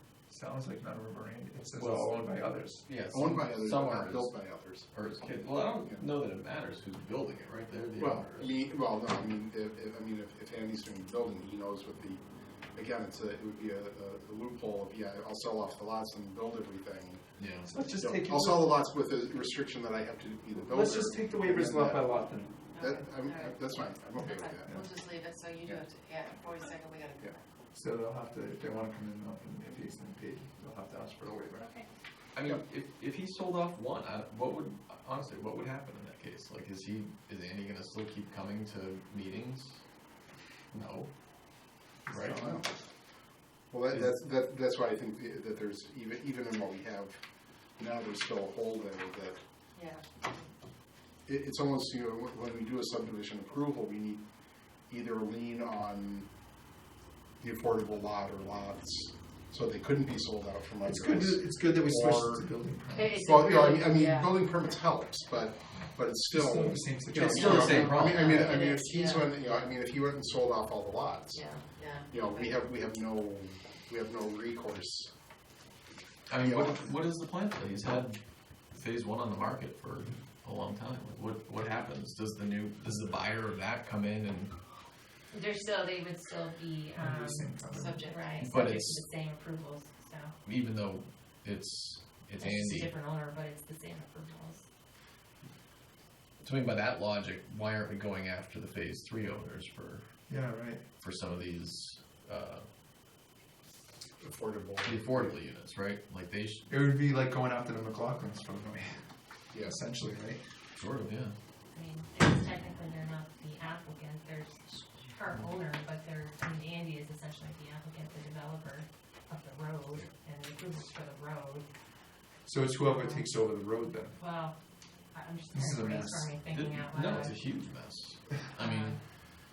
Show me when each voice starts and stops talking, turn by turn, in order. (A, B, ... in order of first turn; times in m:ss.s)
0:00.3-0:02.9 A
0:01.8-0:02.3 B
0:02.8-0:08.6 B
0:03.1-0:04.9 C
0:08.0-0:12.2 C
0:12.8-0:17.2 C
0:17.4-0:17.7 B
0:17.6-0:18.8 A
0:18.0-0:22.1 C
0:20.6-0:22.5 A
0:22.7-0:27.4 D
0:22.8-0:24.7 C
0:27.7-0:31.7 A
0:31.6-0:31.9 E
0:32.3-0:39.8 B
0:40.7-0:41.1 B
0:42.1-0:42.5 B
0:42.1-0:42.6 A
0:42.3-0:42.7 C
0:43.7-0:47.2 C
0:47.8-0:49.4 C
0:49.7-0:50.0 D
0:51.2-0:54.2 C
0:54.9-0:56.3 C
0:57.4-1:02.4 C
1:00.8-1:03.1 A
1:02.9-1:04.5 D
1:03.1-1:11.4 C
1:06.3-1:08.0 A
1:07.1-1:08.6 B
1:07.3-1:09.3 D
1:11.3-1:12.5 D
1:12.0-1:15.1 C
1:16.3-1:18.2 B
1:16.4-1:16.8 C
1:18.7-1:24.6 B
1:25.3-1:30.3 E
1:27.0-1:28.0 A
1:27.7-1:28.5 D
1:28.4-1:29.0 B
1:30.4-1:32.9 B
1:32.4-1:34.6 E
1:36.4-1:40.1 B
1:40.3-1:40.8 A
1:41.0-1:42.7 B
1:44.2-1:45.3 C
1:44.8-1:46.7 B
1:46.7-1:50.6 A
1:50.8-1:51.4 B
1:51.7-2:01.7 E
2:02.4-2:04.2 A
2:02.8-2:03.3 E
2:04.2-2:04.6 E
2:05.1-2:07.3 E
2:05.5-2:06.3 A
2:06.5-2:09.0 B
2:08.6-2:09.0 E